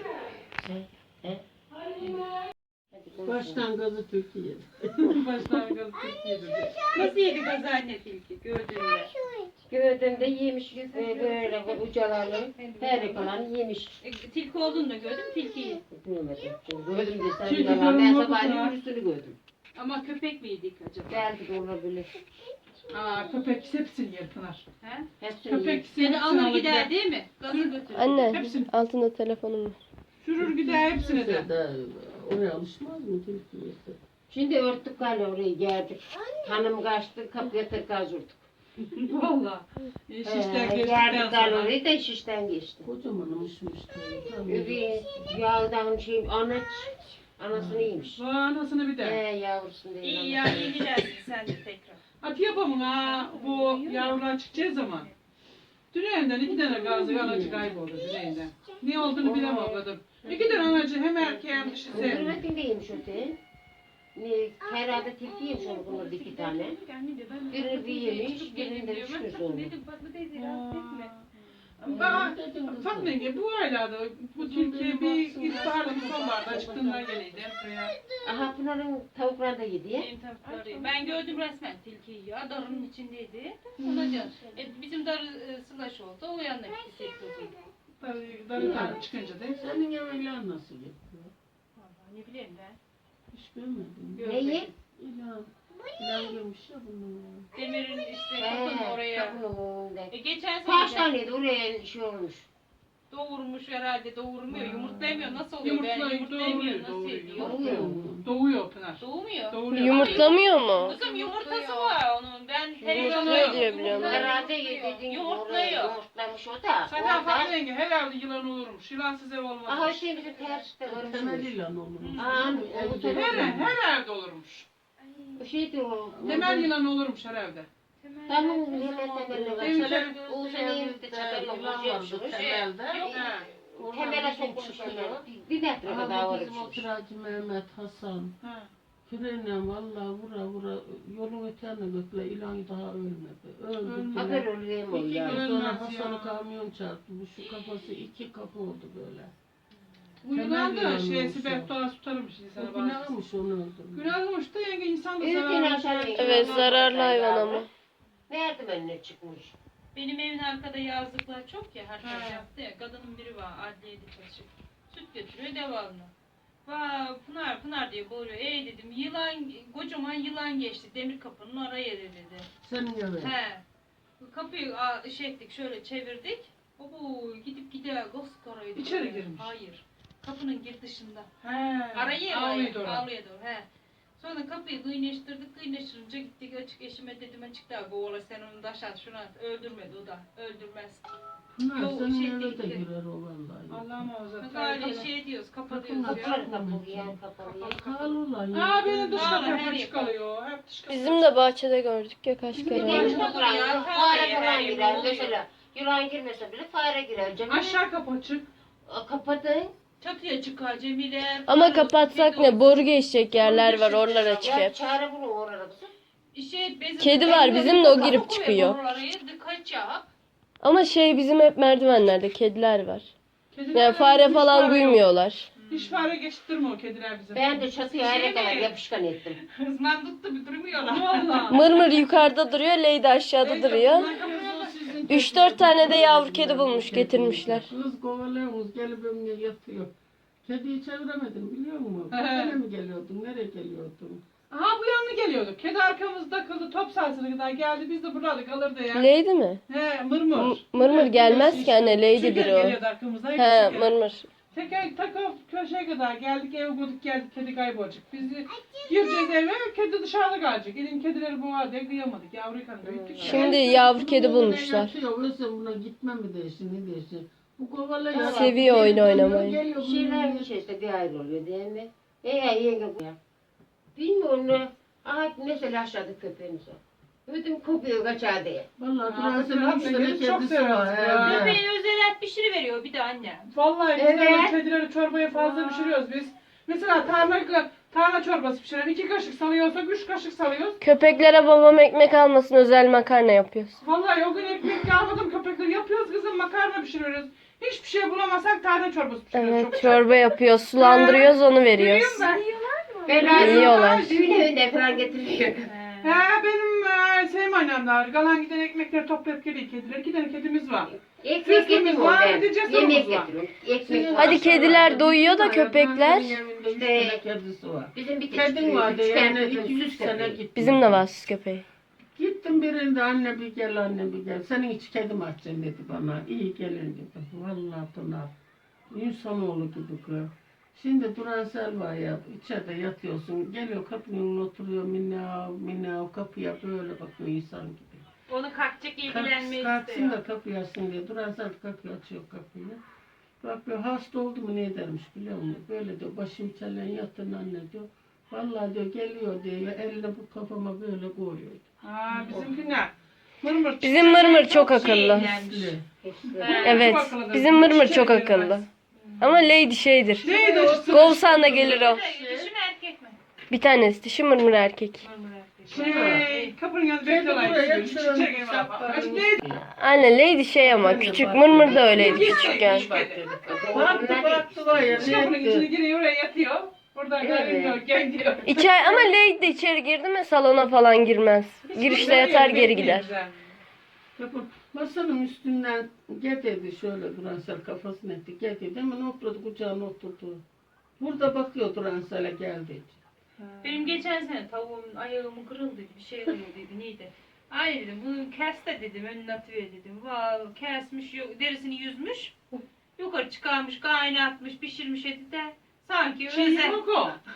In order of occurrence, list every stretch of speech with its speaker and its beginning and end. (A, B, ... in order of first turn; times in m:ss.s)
0:00.6-0:01.4 A
0:02.9-0:03.7 A
0:03.2-0:05.1 B
0:05.0-0:06.9 C
0:06.9-0:09.1 D
0:09.7-0:14.0 A
0:10.7-0:11.8 D
0:12.5-0:13.3 D
0:14.0-0:15.8 D
0:15.8-0:19.4 A
0:17.4-0:18.8 C
0:19.8-0:21.3 D
0:21.1-0:22.1 A
0:22.9-0:24.6 C
0:24.8-0:25.1 D
0:25.2-0:25.9 A
0:25.5-0:26.9 C
0:25.9-0:28.4 D
0:27.5-0:27.8 C
0:27.9-0:29.8 E
0:28.3-0:28.7 C
0:30.2-0:31.5 C
0:30.4-0:34.0 B
0:34.3-0:38.4 A
0:39.0-0:39.6 D
0:40.1-0:41.7 C
0:40.2-0:42.9 A
0:42.8-0:45.4 B
0:44.5-0:48.2 A
0:47.5-0:47.9 B
0:48.2-0:49.2 C
0:49.0-0:50.9 A
0:50.0-0:52.0 D
0:52.2-0:55.1 C
0:52.8-0:55.1 D
0:55.9-1:02.3 C
0:57.1-0:57.7 A
0:59.2-1:00.3 A
1:01.9-1:03.4 A
1:01.9-1:02.3 D
1:04.2-1:06.8 A
1:05.5-1:11.2 D
1:07.5-1:09.7 A
1:10.4-1:11.2 C
1:11.8-1:13.2 B
1:11.8-1:17.9 C
1:11.9-1:12.2 A
1:14.4-1:17.1 B
1:18.2-1:20.1 A
1:20.0-1:27.6 D
1:20.6-1:20.9 B
1:23.8-1:24.3 C
1:28.0-1:29.7 C
1:28.6-1:31.3 B
1:28.6-1:29.0 A
1:31.8-1:32.8 D
1:33.3-1:37.5 B
1:34.2-1:34.7 D
1:34.2-1:34.7 A
1:37.5-1:39.4 D
1:38.4-1:42.5 A
1:40.1-1:41.2 D
1:43.1-1:47.9 D
1:44.5-1:51.9 C
1:47.4-1:48.0 A
1:47.4-1:48.2 B
1:49.0-1:56.0 D
1:49.7-1:51.0 E
1:52.8-1:57.5 A
1:52.9-1:54.3 E
1:53.0-1:53.6 C
1:56.8-2:00.1 C
1:59.7-2:01.6 A
2:00.1-2:00.7 D
2:00.9-2:03.8 B
2:02.0-2:02.3 C
2:02.2-2:03.6 A
2:03.1-2:04.7 C
2:05.0-2:05.4 D
2:05.4-2:06.7 A
2:06.2-2:06.6 B
2:06.2-2:07.7 C
2:08.0-2:09.5 D
2:08.3-2:16.9 A
2:08.8-2:15.2 B
2:09.6-2:10.2 C
2:12.3-2:13.4 D
2:13.0-2:13.5 C
2:15.8-2:18.3 B
2:18.4-2:18.7 C
2:19.1-2:29.3 B
2:23.8-2:24.4 C
2:24.2-2:25.5 A
2:25.2-2:26.4 C
2:30.2-2:33.1 C
2:30.3-2:31.7 B
2:32.6-2:34.2 B
2:33.9-2:36.7 C
2:35.2-2:37.7 A
2:36.1-2:37.7 E
2:38.3-2:39.6 A
2:40.0-2:46.1 D
2:42.0-2:42.5 C
2:46.6-2:52.5 D
2:52.6-2:53.4 B
2:53.2-2:53.6 D
2:54.2-3:01.3 D
2:58.8-2:59.5 C
3:01.4-3:03.0 C
3:01.9-3:03.7 D
3:04.2-3:11.0 D
3:11.6-3:13.9 B
3:11.7-3:12.8 D
3:13.7-3:15.1 C
3:14.4-3:16.4 D
3:15.7-3:19.6 B
3:16.0-3:18.2 A
3:18.5-3:21.3 C
3:19.2-3:20.2 D
3:20.9-3:23.2 E
3:22.5-3:23.2 C
3:22.7-3:27.8 A
3:22.7-3:25.4 D
3:27.5-3:28.5 C
3:28.9-3:29.7 A
3:30.0-3:32.9 D
3:31.5-3:34.7 E
3:33.4-3:34.6 D
3:34.4-3:35.9 A
3:36.3-3:40.1 D
3:37.0-3:38.8 E
3:40.6-3:43.1 E
3:43.5-3:45.0 C
3:43.7-3:45.5 E
3:45.6-3:46.1 D
3:45.7-3:47.7 C
3:47.3-3:49.4 A
3:47.8-3:48.7 D
3:49.4-3:51.7 D
3:50.7-3:51.8 C
3:51.5-3:54.1 E
3:53.4-3:56.0 C
3:53.8-3:54.7 D
3:55.1-3:57.7 E
3:55.7-3:59.9 B
4:00.4-4:04.2 B
4:02.1-4:02.6 C
4:04.5-4:09.1 C
4:08.9-4:09.6 E
4:09.7-4:14.0 C
4:10.3-4:12.8 E
4:13.4-4:14.3 E
4:14.5-4:23.5 C
4:22.8-4:23.6 A
4:23.2-4:30.5 B
4:23.2-4:24.9 E
4:28.1-4:29.1 A
4:28.2-4:29.6 E
4:29.8-4:33.2 A
4:33.9-4:38.7 A
4:38.8-4:41.6 B
4:39.0-4:41.6 C
4:41.2-4:43.5 D
4:43.5-4:50.8 C
4:44.0-4:44.6 A
4:45.3-4:46.0 D
4:50.8-4:53.8 E
4:53.8-5:00.1 C
4:59.3-5:02.2 E
5:00.8-5:02.4 C
5:02.1-5:03.7 D
5:03.1-5:05.7 A
5:03.2-5:04.5 C
5:03.4-5:04.2 E
5:05.7-5:06.2 D
5:06.0-5:10.9 C
5:11.0-5:14.8 A
5:11.4-5:13.3 C
5:13.8-5:21.0 B
5:14.2-5:16.4 E
5:16.7-5:17.2 A
5:17.9-5:20.4 A
5:20.6-5:21.6 E
5:22.2-5:28.3 B
5:28.9-5:38.0 B
5:38.3-5:40.2 D
5:39.1-5:42.8 B
5:43.4-5:51.7 B
5:51.8-5:54.9 C
5:52.1-5:52.5 D
5:53.8-5:55.4 E
5:54.3-5:55.7 D
5:55.3-5:55.9 B
5:56.0-5:56.9 A
5:56.3-5:58.7 C
5:56.4-5:56.9 D
5:56.6-5:58.6 E
5:59.0-5:59.4 D
5:59.2-6:02.0 E
6:00.2-6:01.8 C
6:00.2-6:02.5 B
6:01.5-6:03.2 D
6:03.5-6:05.0 E
6:05.0-6:06.6 D
6:05.7-6:06.3 B
6:05.7-6:09.4 C
6:07.0-6:09.7 B
6:09.8-6:12.9 E
6:10.6-6:12.4 B
6:11.7-6:19.1 C
6:11.8-6:14.5 A
6:13.7-6:15.7 B
6:17.2-6:17.8 A
6:18.4-6:23.1 E
6:21.7-6:23.5 C
6:24.2-6:30.4 B
6:31.0-6:33.0 B
6:33.4-6:34.0 C
6:33.6-6:42.4 D
6:43.0-6:46.8 D
6:46.3-6:47.2 C